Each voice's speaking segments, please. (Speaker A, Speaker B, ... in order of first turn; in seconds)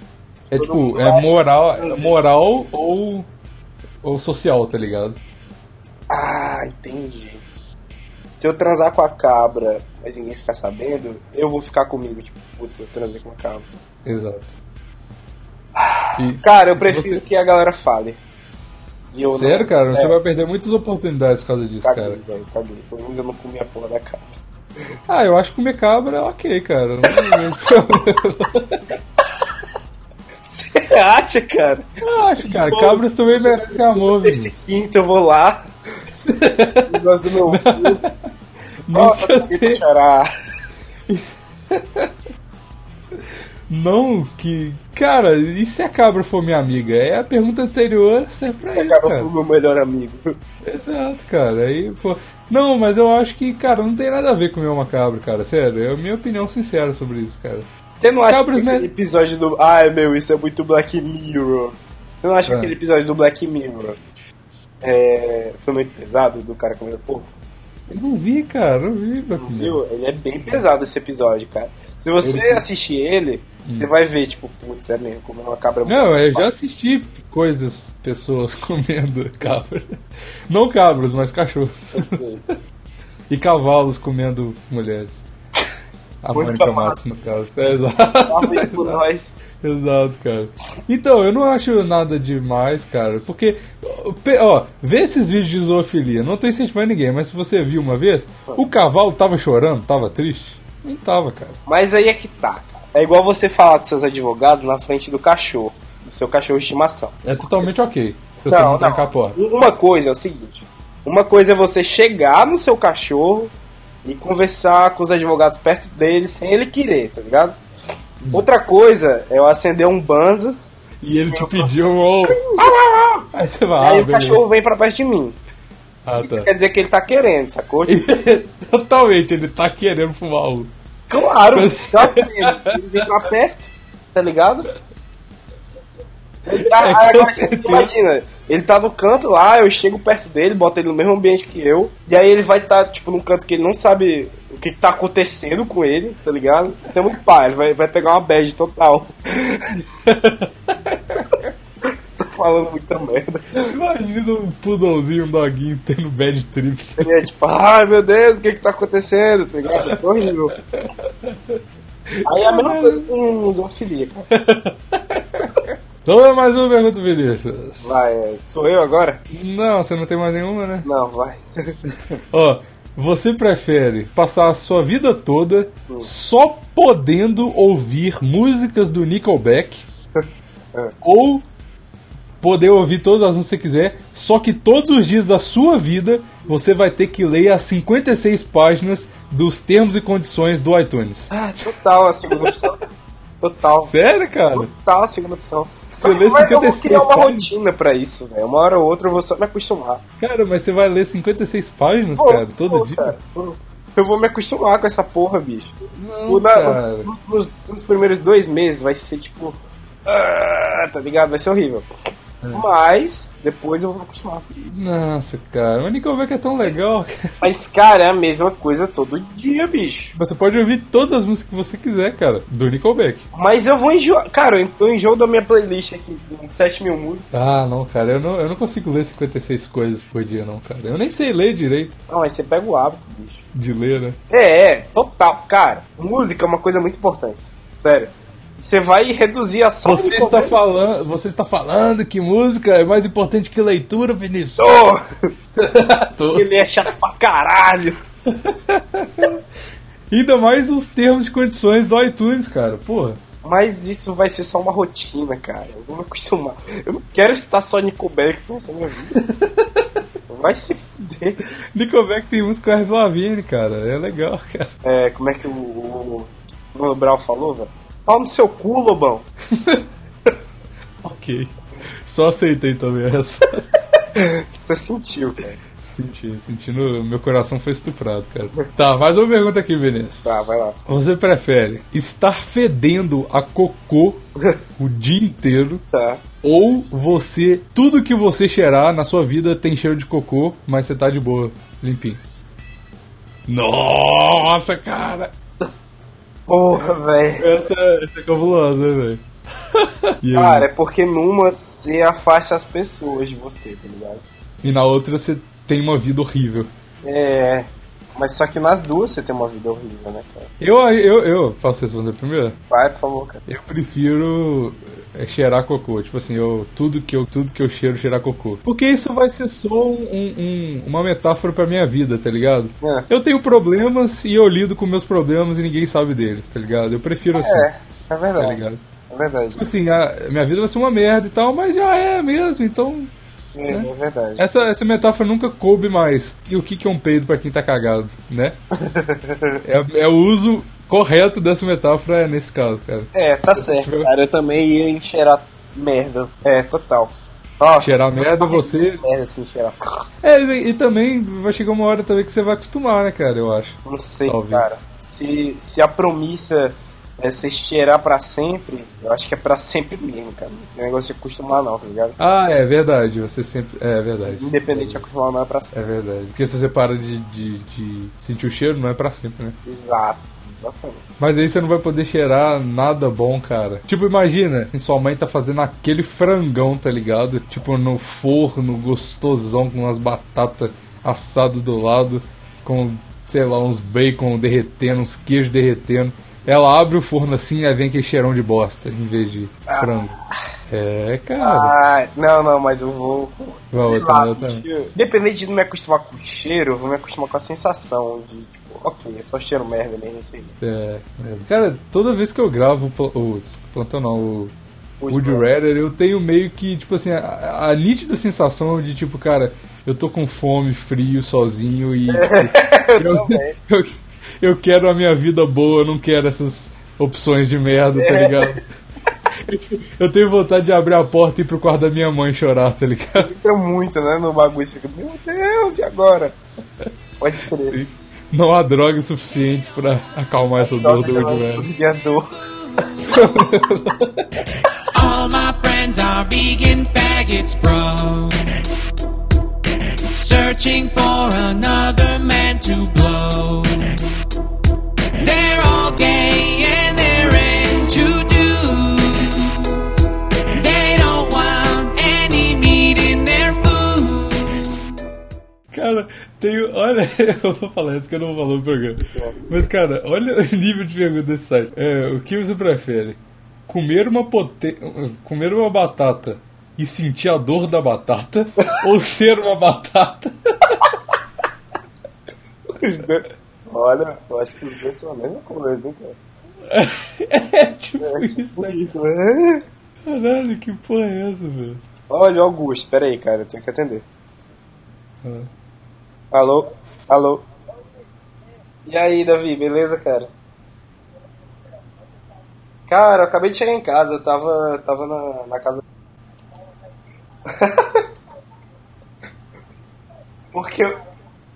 Speaker A: 0.5-2.2, 6.1-7.4, 8.4-13.7, 15.8-18.2, 19.1-20.2, 21.8-24.3, 27.1-27.4, 30.5-31.9, 32.5-35.6, 36.9-38.0, 38.9-40.3, 48.7-50.4, 58.0-64.0, 64.8-67.3, 69.3-76.5, 82.0-82.4, 86.3-87.2, 88.3-89.4, 101.7-107.7, 108.5-113.5, 114.0-117.6, 118.3-120.5, 121.3-122.6, 123.8-125.4, 126.2-128.1, 131.1-134.7, 136.5-149.8, 152.2-153.7, 157.0-160.5, 162.2-164.3, 167.8-169.2, 170.8-171.8, 180.2-180.9, 191.3-192.8, 193.4-193.9, 194.5-200.0, 202.2-205.8, 206.3-211.9, 212.5-214.4, 217.4-220.2, 223.3-227.3, 232.1-233.4, 234.3-240.6, 244.6-245.0, 246.3-248.0, 253.4-259.2, 260.3-261.4, 264.8-269.3, 274.1-275.6, 280.2-280.9, 285.9-286.2, 296.5-297.5, 300.3-304.2, 307.0-310.5, 312.7-313.4, 322.8-323.1, 327.4-328.6, 329.1-329.6, 333.6-334.5, 338.8-339.6, 343.1-349.8, 353.9-362.2, 364.2-365.7, 369.7-371.0, 389.7-390.2, 391.4-400.5, 405.0-405.4, 412.1-413.5, 417.9-418.6, 423.2-426.4, 427.2-427.8, 430.6-432.2, 459.1-459.4, 472.7-476.2, 478.0-479.6, 482.1-484.1, 486.3-487.4, 488.9-490.3, 492.9-495.8, 497.5-498.0, 500.5-500.9
Speaker B: 0.5-3.3, 4.0-5.2, 14.1-14.6, 16.2-17.2, 19.3-22.2, 25.1-28.8, 32.0-34.5, 36.3-36.9, 37.5-38.1, 38.9-39.8, 41.1-42.1, 43.7-49.3, 50.6-57.7, 58.3-58.9, 62.5-62.7, 67.9-69.8, 72.2-72.6, 73.6-73.9, 75.9-80.0, 80.5-82.2, 83.3-85.3, 86.2-89.0, 89.5-101.6, 107.2-109.4, 118.2-118.5, 121.0-124.4, 126.0-126.5, 127.9-130.7, 131.5-132.8, 136.5-137.9, 150.1-151.2, 153.7-157.1, 160.7-161.6, 162.3-163.1, 164.3-168.2, 169.3-170.9, 172.2-179.9, 181.0-181.4, 182.4-191.7, 192.4-192.7, 193.8-194.7, 196.0-197.5, 200.2-203.2, 205.9-207.1, 214.7-217.1, 220.2-223.2, 227.3-232.0, 233.5-234.2, 239.8-244.8, 245.6-246.5, 248.3-249.4, 250.1-253.2, 259.1-259.8, 261.7-264.7, 269.5-269.9, 271.0-271.5, 272.1-273.7, 275.8-284.2, 284.8-285.8, 286.4-292.2, 293.5-295.3, 297.4-299.2, 299.7-300.7, 304.6-306.7, 310.6-312.6, 313.5-327.7, 328.4-328.8, 329.6-333.1, 333.7-338.6, 339.6-344.1, 347.8-349.0, 350.2-354.8, 362.2-365.0, 365.7-369.6, 371.2-390.1, 390.7-391.7, 393.7-394.6, 400.6-404.5, 405.1-418.6, 419.4-423.3, 427.7-431.7, 433.0-434.3, 455.7-470.8, 476.7-478.8, 480.1-481.8, 485.2-485.5
Speaker C: 432.8-433.3, 434.9-438.6, 440.1-444.1, 445.2-449.9, 450.5-455.0